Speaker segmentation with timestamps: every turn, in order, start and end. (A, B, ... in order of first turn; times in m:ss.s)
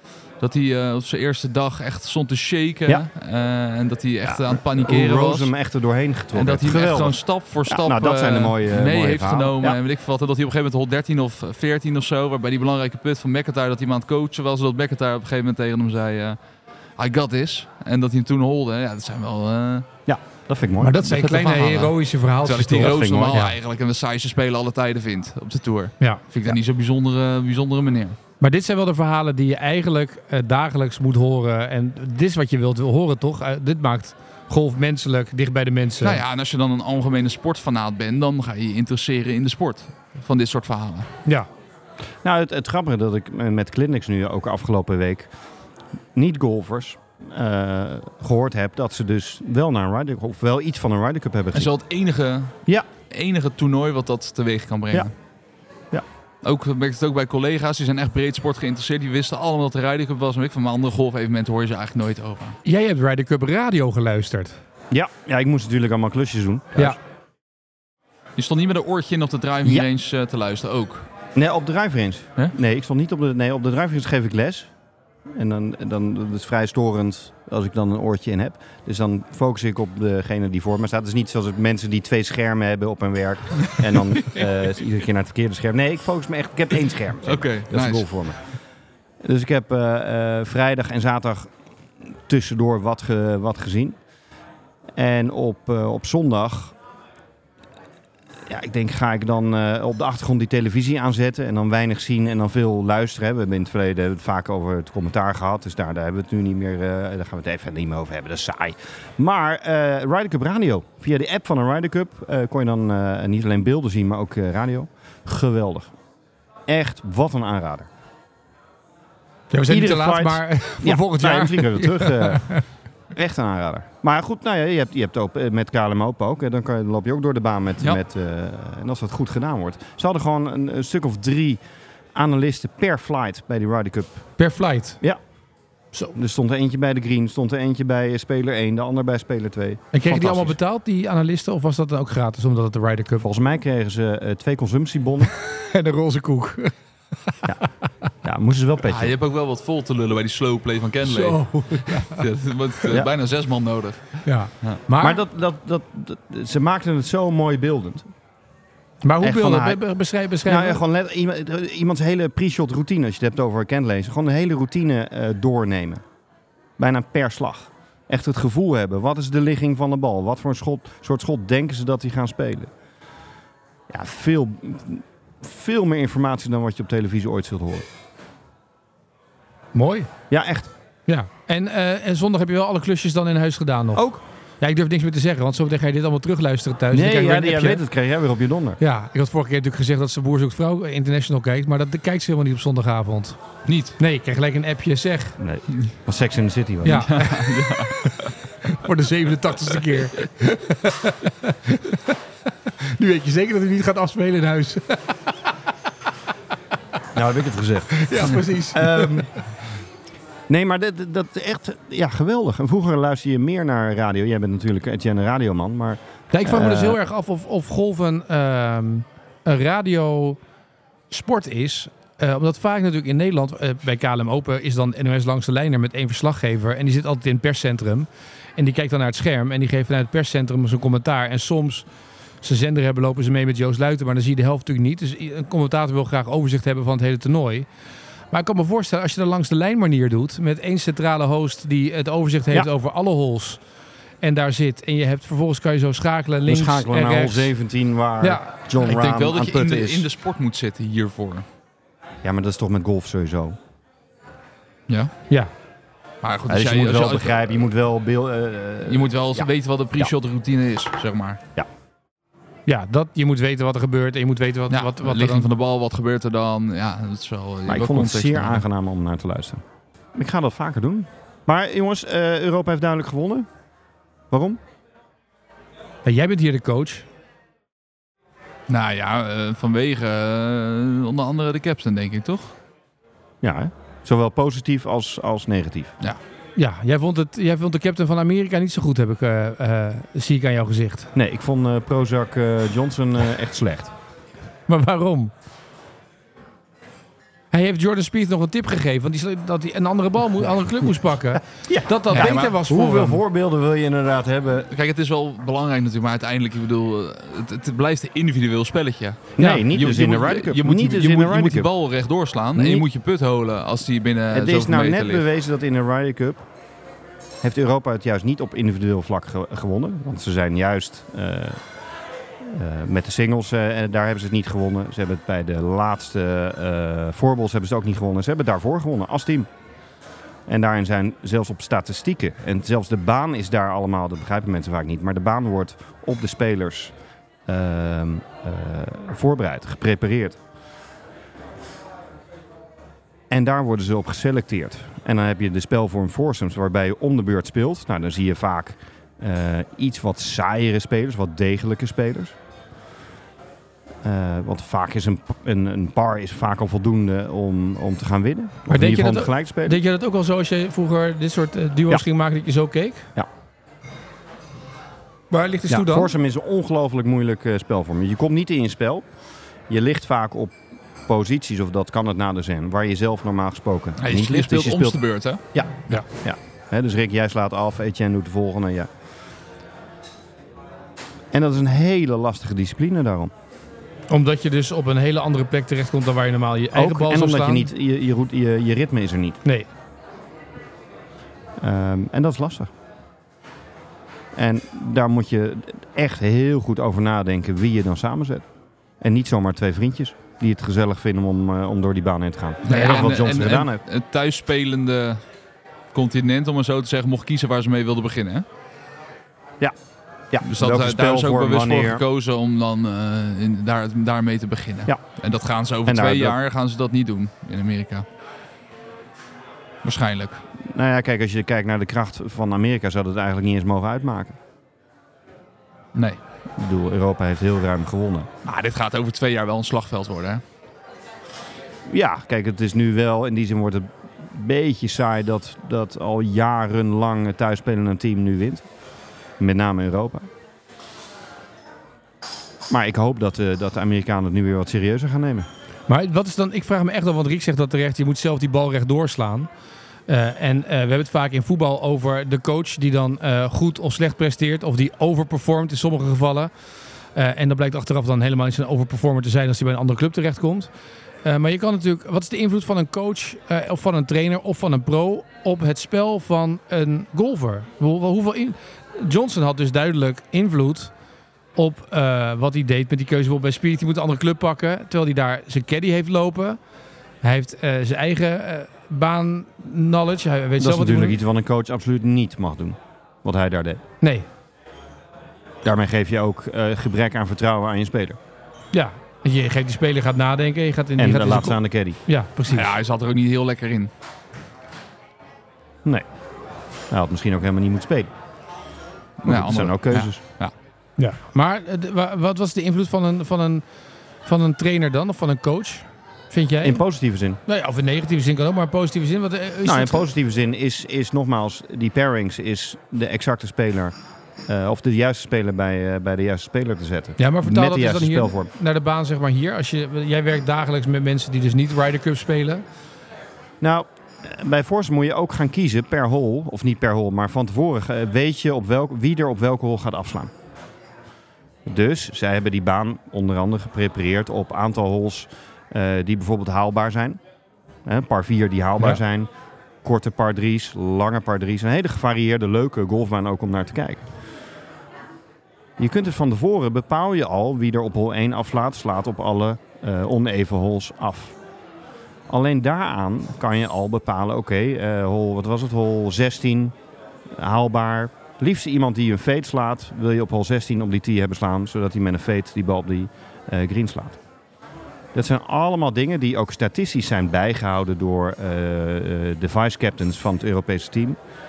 0:00.4-0:05.5 A
0:04.2-0:09.8 B
0:06.3-0:16.4 A
0:17.0-0:19.9 A
0:20.1-0:21.0 B
0:20.8-0:23.6 C
0:21.0-0:28.2 A
0:22.8-0:23.4 B
0:28.4-0:36.2 C
0:36.0-0:41.1 A
0:42.2-0:45.3 B
0:46.1-0:51.7 B
0:51.5-0:52.6 A
0:53.1-0:55.1 A
0:56.4-1:02.6 A
1:02.6-1:04.6 C
1:04.9-1:07.0 B
1:08.4-1:11.1 A
1:11.3-1:14.7 B
1:15.3-1:28.4 B
1:27.2-1:28.0 A
1:29.2-1:31.5 B
1:32.0-1:34.0 B
1:35.0-1:36.7 B
1:38.5-1:55.9 B
1:56.7-1:57.9 B
1:59.5-2:02.6 C
1:59.7-2:02.6 B
2:03.1-2:11.6 B
2:12.1-2:14.2 B
2:14.4-2:15.0 C
2:16.1-2:20.6 B
2:19.9-2:23.3 C
2:23.2-2:25.3 B
2:25.4-2:26.7 C
2:28.2-2:29.1 B
2:28.8-2:34.8 A
2:31.0-2:32.2 C
2:34.2-2:35.2 C
2:35.0-2:38.1 B
2:39.0-2:40.8 C
2:39.2-2:39.8 B
2:40.4-2:46.0 B
2:46.8-2:52.7 B
2:53.9-2:57.9 B
2:59.7-3:00.1 C
3:00.3-3:00.7 B
3:01.1-3:04.1 C
3:03.9-3:04.2 B
3:04.6-3:07.8 C
3:06.9-3:08.8 B
3:08.8-3:13.4 C
3:13.6-3:14.0 A
3:14.0-3:15.4 C
3:15.4-3:17.1 B
3:16.8-3:22.2 C
3:16.9-3:18.3 A
3:22.8-3:25.2 C
3:27.1-3:29.3 B
3:27.9-3:29.4 C
3:30.5-3:37.0 B
3:36.3-3:40.4 C
3:41.1-3:51.9 C
3:52.4-3:57.7 C
3:58.3-4:03.6 C
4:04.2-4:07.5 C
4:06.4-4:10.1 B
4:08.2-4:08.5 C
4:08.8-4:11.4 A
4:12.2-4:13.6 B
4:16.2-4:17.5 A
4:16.5-4:20.1 B
4:18.9-4:21.4 A
4:22.7-4:25.5 C
4:24.7-4:28.6 A
4:27.7-4:29.6 B
4:30.1-4:33.5 B
4:34.3-4:34.6 B
4:36.0-4:37.0 C
4:38.7-4:42.5 A
4:43.4-4:45.9 B
4:46.6-4:51.1 C
4:51.1-4:53.9 B
4:54.7-4:55.3 C
4:57.5-5:03.2 C
5:01.5-5:04.7 B
5:02.1-5:02.6 A
5:04.7-5:15.2 A
5:09.4-5:11.7 B
5:12.5-5:12.8 B
5:14.3-5:16.4 B
5:17.4-5:21.6 B
5:22.4-5:29.5 B
5:30.5-5:36.9 B
5:37.5-5:40.4 B
5:43.3-5:52.3 B
5:54.0-5:59.8 B
5:58.7-6:03.1 C
6:05.3-6:06.1 C
6:05.7-6:09.0 B
6:09.7-6:15.0 B
6:14.0-6:15.4 A
6:15.5-6:18.9 B
6:21.3-6:23.3 B
6:24.1-6:27.7 C
6:26.7-6:29.4 B
6:31.6-6:32.7 B
6:34.3-6:38.4 B
6:39.0-6:43.8 B
6:42.6-6:45.2 A
6:45.9-6:48.4 A
6:50.3-6:52.0 B
6:50.4-6:58.0 A
6:55.8-6:56.4 B
6:59.8-7:00.4 A
7:00.6-7:04.4 B
7:06.6-7:08.3 B
7:08.4-7:10.4 A
7:11.9-7:18.7 B
7:19.4-7:20.3 B
7:22.7-7:25.5 B
7:25.9-7:29.5 C
7:30.1-7:36.5 C
7:37.1-7:40.7 C
7:41.2-7:50.9 C
7:51.6-7:56.6 C
7:57.2-8:01.2 C
8:00.6-8:03.8 B
8:04.0-8:04.2 C
8:05.6-8:08.2 B
8:08.7-8:12.7 C
8:11.0-8:12.0 B
8:12.5-8:13.9 A
8:16.9-8:18.1 B
8:19.2-8:20.5 A
8:19.2-8:20.2 B
8:21.0-8:23.6 C
8:24.2-8:26.8 C
8:26.6-8:27.4 B
8:27.4-8:30.1 C
8:29.6-8:33.9 B
8:34.5-8:38.5 B
8:37.2-8:42.6 C
8:43.6-8:50.3 B
8:51.6-8:57.2 B
8:57.8-8:59.3 B
8:59.8-9:04.1 B
9:05.8-9:11.4 B
9:12.3-9:16.7 B
9:17.3-9:24.2 B
9:25.1-9:31.2 B